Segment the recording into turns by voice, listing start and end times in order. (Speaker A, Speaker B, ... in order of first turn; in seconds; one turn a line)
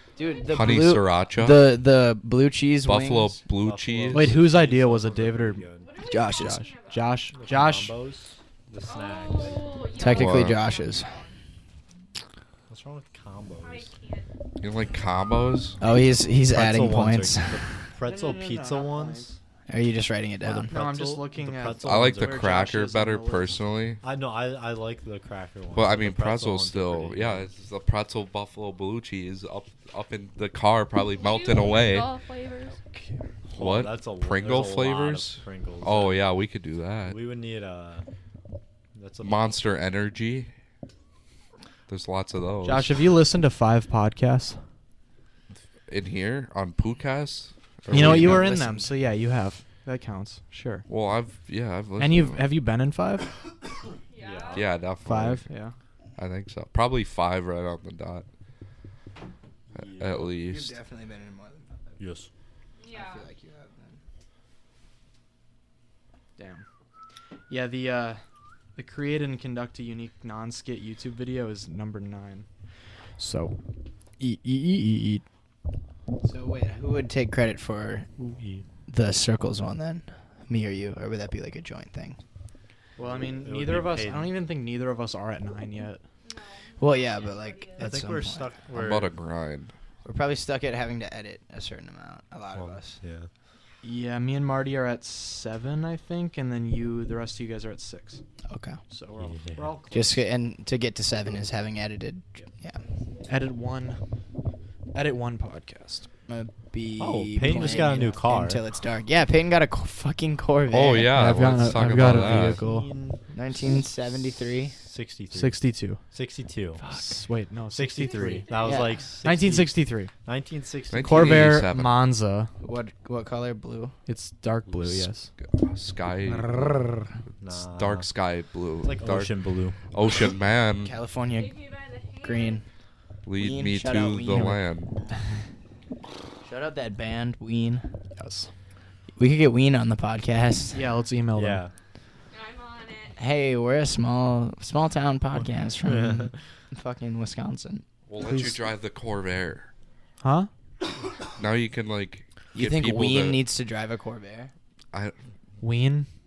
Speaker A: 0.2-0.9
Speaker B: 0.2-3.4
Speaker C: 0.5-1.7
Speaker C: 2.8-4.4
Speaker D: 3.6-5.9
Speaker E: 4.1-5.6
Speaker A: 5.8-7.3
Speaker B: 6.1-6.7
Speaker E: 6.3-7.9
Speaker D: 7.3-9.8
Speaker A: 8.8-11.4
Speaker B: 10.0-11.1
Speaker C: 10.1-10.6
Speaker D: 12.7-13.9
Speaker A: 13.6-14.3
Speaker C: 14.6-15.8
Speaker B: 15.8-17.6
Speaker D: 16.5-19.4
Speaker E: 18.0-19.3
Speaker B: 19.7-20.7
Speaker D: 20.4-22.7
Speaker E: 20.6-23.6
Speaker C: 21.8-24.0
Speaker D: 24.0-27.5
Speaker C: 25.7-32.1
Speaker A: 31.1-32.8
Speaker C: 33.5-37.2
Speaker D: 33.5-36.2
Speaker D: 37.0-38.0
Speaker D: 38.9-39.5
Speaker C: 39.2-40.5
Speaker C: 41.9-43.0
Speaker E: 42.6-44.6
Speaker C: 45.9-48.5
Speaker B: 47.9-48.9
Speaker E: 47.9-50.9
Speaker C: 50.9-52.5
Speaker E: 52.0-53.3
Speaker A: 54.1-54.7
Speaker D: 54.2-54.6
Speaker C: 54.5-55.5
Speaker E: 55.0-55.7
Speaker C: 56.2-58.2
Speaker D: 59.7-60.3
Speaker C: 59.8-60.8
Speaker B: 60.4-61.9
Speaker D: 62.0-62.3
Speaker A: 62.8-63.3
Speaker B: 62.9-64.0
Speaker E: 66.4-66.6
Speaker E: 67.5-68.2
Speaker E: 68.8-72.5
Speaker E: 73.2-73.5
Speaker E: 74.2-75.2
Speaker B: 76.2-78.1
Speaker D: 78.2-78.6
Speaker B: 78.9-82.2
Speaker E: 83.0-86.0
Speaker D: 83.0-84.3
Speaker A: 86.2-88.0
Speaker B: 86.8-88.5
Speaker D: 87.8-89.1
Speaker C: 88.7-89.7
Speaker B: 90.0-93.0
Speaker D: 92.5-93.3
Speaker E: 93.8-98.2
Speaker B: 98.5-98.8
Speaker E: 98.9-100.2
Speaker D: 99.2-99.7
Speaker B: 99.9-102.8
Speaker E: 103.3-104.0
Speaker E: 104.9-106.1
Speaker B: 106.3-111.1
Speaker D: 107.0-108.6
Speaker E: 107.4-108.2
Speaker C: 110.7-112.6
Speaker E: 111.1-112.9
Speaker D: 112.1-116.8
Speaker B: 113.3-114.8
Speaker E: 115.3-116.0
Speaker E: 116.9-118.5
Speaker D: 117.7-121.6
Speaker A: 118.1-119.0
Speaker B: 118.6-119.0
Speaker E: 119.2-120.1
Speaker C: 120.9-122.1
Speaker E: 121.0-122.5
Speaker B: 122.6-124.0
Speaker E: 124.1-125.3
Speaker C: 125.4-126.9
Speaker D: 127.4-128.1
Speaker C: 127.5-130.9
Speaker D: 128.8-129.8
Speaker B: 130.8-131.5
Speaker A: 131.3-132.6
Speaker B: 132.2-132.6
Speaker C: 133.2-134.9
Speaker B: 133.4-134.6
Speaker B: 136.4-137.8
Speaker E: 138.2-138.5
Speaker B: 139.2-140.8
Speaker E: 140.7-141.6
Speaker D: 141.3-141.7
Speaker A: 142.3-143.2
Speaker B: 143.2-147.8
Speaker D: 145.4-146.4
Speaker C: 148.1-149.7
Speaker E: 150.2-150.5
Speaker C: 151.3-153.4
Speaker B: 152.5-154.5
Speaker E: 155.6-156.1